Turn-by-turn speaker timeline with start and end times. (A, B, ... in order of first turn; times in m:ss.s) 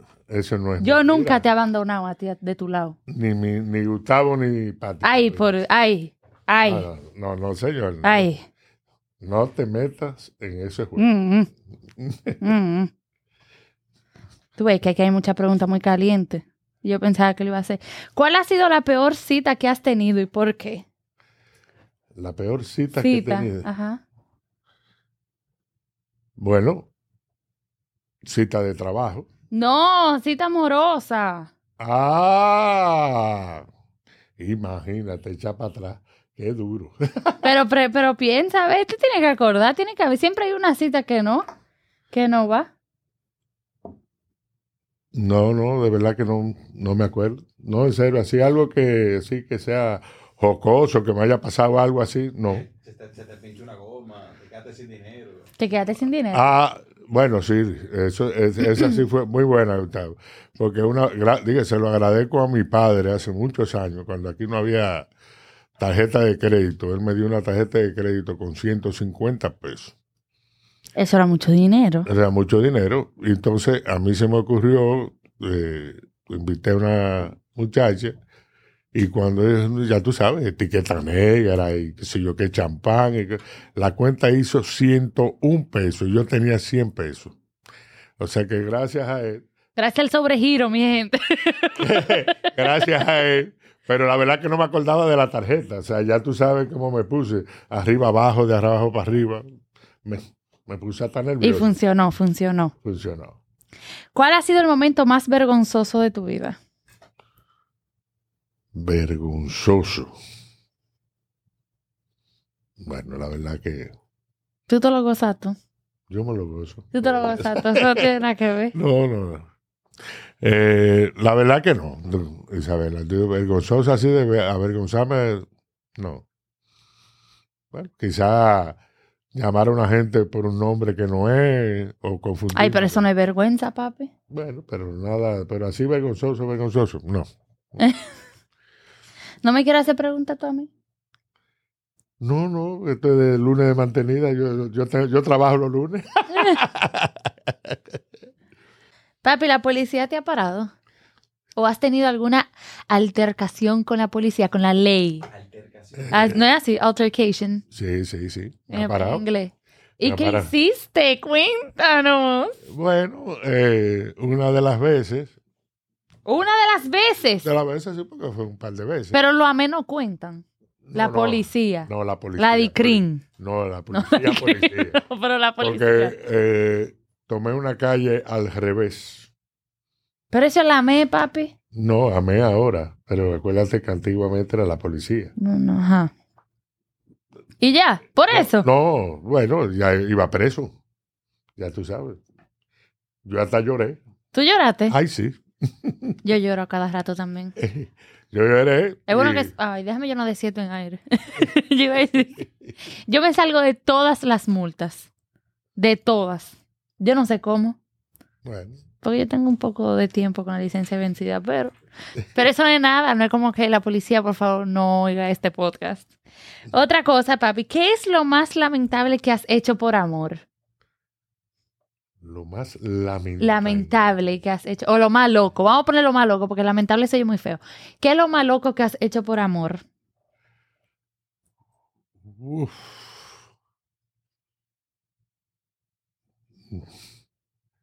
0:00.3-0:01.4 A
0:00.8-0:03.0 B
0:03.1-0:05.5 A
0:05.0-0:06.9 B
0:06.6-0:08.3 A
0:08.0-0:08.4 B
0:09.2-0:11.1 A
0:11.0-0:11.5 B
0:12.0-0:12.5 A
0:12.4-0:12.9 B
0:14.6-0:20.8 B
0:22.2-0:23.7 A
0:23.0-0:24.0 B
0:26.4-0:26.9 A
0:28.2-0:29.3 A
0:29.5-0:31.5 B
0:31.8-0:33.7 A
0:34.4-0:37.5 A
0:37.4-0:41.5 B
0:42.1-0:42.7 B
0:45.1-0:52.7 A
0:52.5-0:55.5 C
0:55.6-0:56.4 B
0:56.3-1:05.1 A
1:05.8-1:09.9 A
1:11.0-1:12.1 B
1:12.1-1:18.2 A
1:18.9-1:27.4 A
1:28.2-1:29.4 A
1:29.8-1:32.7 B
1:31.8-1:39.5 A
1:40.0-1:41.7 A
1:41.4-1:42.7 B
1:42.8-1:43.4 A
1:44.1-1:46.6 B
1:48.7-1:50.1 A
1:52.8-1:53.9 A
1:54.7-1:55.6 B
1:56.1-1:58.1 A
1:56.9-1:58.8 B
1:58.7-1:59.5 A
2:00.4-2:06.2 A
2:07.7-2:08.8 A
2:09.3-2:13.0 A
2:12.6-2:14.1 B
2:14.3-2:17.8 A
2:17.8-2:18.1 B
2:19.4-2:20.7 B
2:22.2-2:27.8 A
2:26.3-2:26.6 B
2:29.2-2:30.7 B
2:31.6-2:35.3 B
2:35.3-2:36.4 C
2:36.0-2:36.4 A
2:36.1-2:37.6 B
2:37.7-2:39.2 A
2:38.7-2:42.6 B
2:40.0-2:40.5 A
2:42.7-2:45.4 A
2:46.2-2:47.5 B
2:47.4-2:49.2 A
2:49.1-2:53.2 B
2:50.8-2:55.0 A
2:53.9-2:56.2 B
2:55.6-2:59.3 A
3:00.3-3:01.5 B
3:01.7-3:05.3 A
3:05.4-3:06.1 B
3:07.6-3:08.7 B
3:08.3-3:10.8 A
3:11.6-3:12.2 A
3:13.2-3:14.0 A
3:14.3-3:15.0 B
3:14.9-3:16.2 A
3:16.2-3:17.5 B
3:17.6-3:19.5 A
3:19.1-3:22.5 B
3:23.1-3:25.1 B
3:25.8-3:27.8 B
3:28.4-3:28.8 A
3:29.0-3:31.8 B
3:32.3-3:36.1 B
3:36.7-3:40.4 B
3:42.2-3:44.0 A
3:43.4-3:49.8 B
3:52.2-3:53.3 A